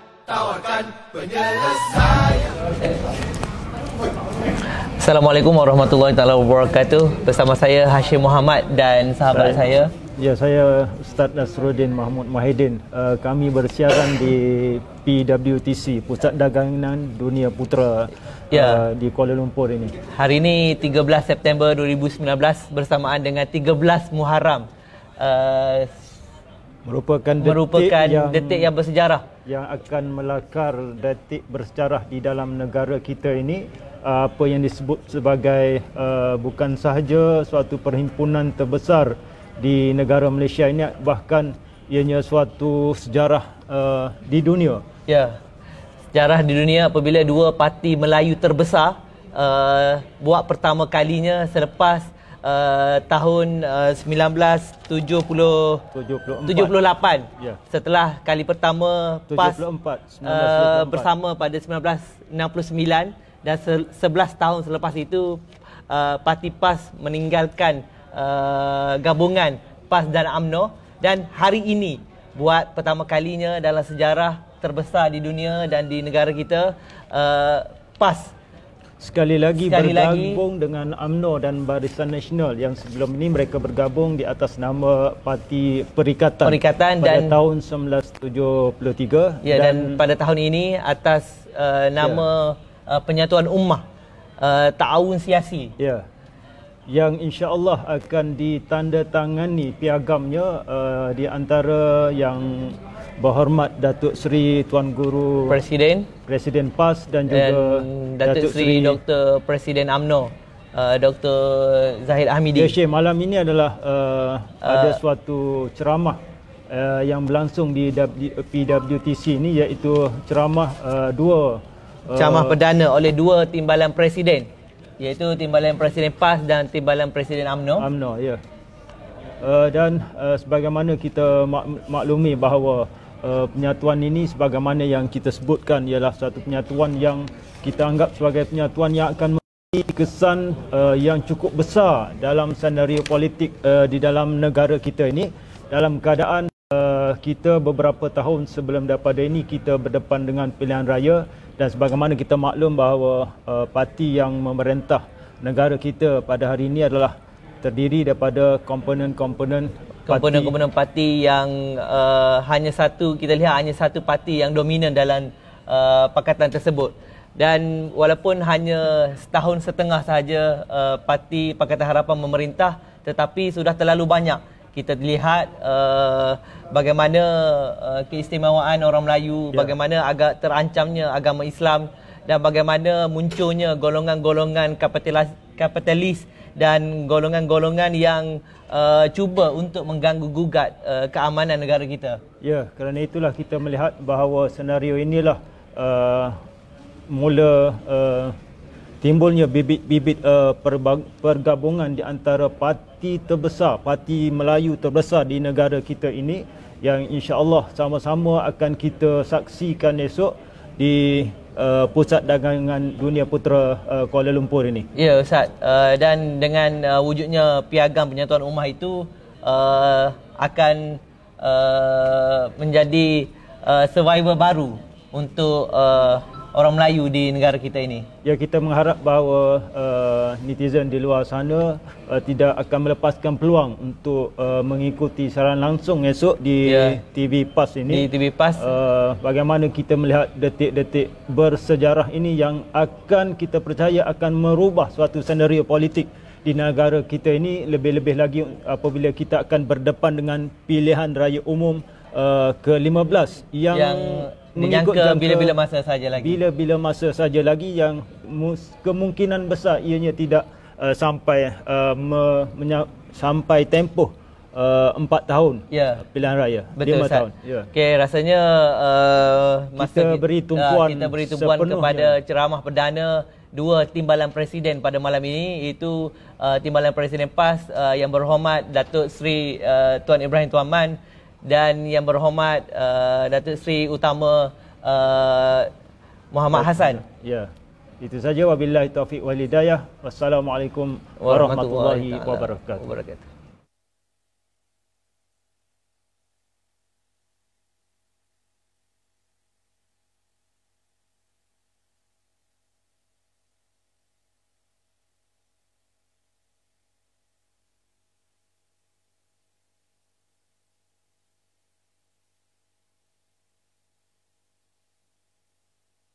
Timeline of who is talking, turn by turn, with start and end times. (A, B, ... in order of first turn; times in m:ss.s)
0:00.2-0:02.7 A
0:05.0-0:09.9 B
0:09.3-0:09.7 C
0:10.2-0:19.9 C
0:18.5-0:18.8 B
0:20.1-0:24.7 B
0:25.2-0:25.9 B
0:26.8-0:28.7 C
0:27.4-0:29.2 B
0:29.4-0:44.8 C
0:45.1-0:45.4 B
0:46.1-0:55.8 B
0:55.9-0:56.8 C
0:56.4-0:59.6 B
0:59.3-1:01.1 C
1:00.2-1:18.3 B
1:19.0-1:30.0 C
1:19.6-1:20.4 B
1:26.4-1:27.3 B
1:29.4-1:33.8 B
1:34.4-1:35.7 B
1:35.8-1:36.0 C
1:36.9-1:45.6 C
1:45.5-1:46.1 B
1:46.3-1:49.0 C
1:47.3-1:52.7 B
1:52.6-2:02.6 C
1:54.6-1:55.0 B
2:02.1-2:07.8 B
2:07.8-2:08.4 C
2:09.4-2:40.6 C
2:40.1-3:12.2 B
3:12.4-3:16.4 C
3:17.1-3:18.4 C
3:19.0-3:34.9 C
3:34.9-3:48.1 B
3:48.2-4:15.5 C
3:56.6-3:57.0 B
3:57.9-3:58.7 B
4:13.7-4:16.4 B
4:16.2-4:27.7 C
4:25.7-4:26.0 B
4:26.8-4:45.7 B
4:29.8-4:32.2 C
4:46.3-4:47.0 B
4:46.5-4:52.9 C
4:51.2-4:53.2 B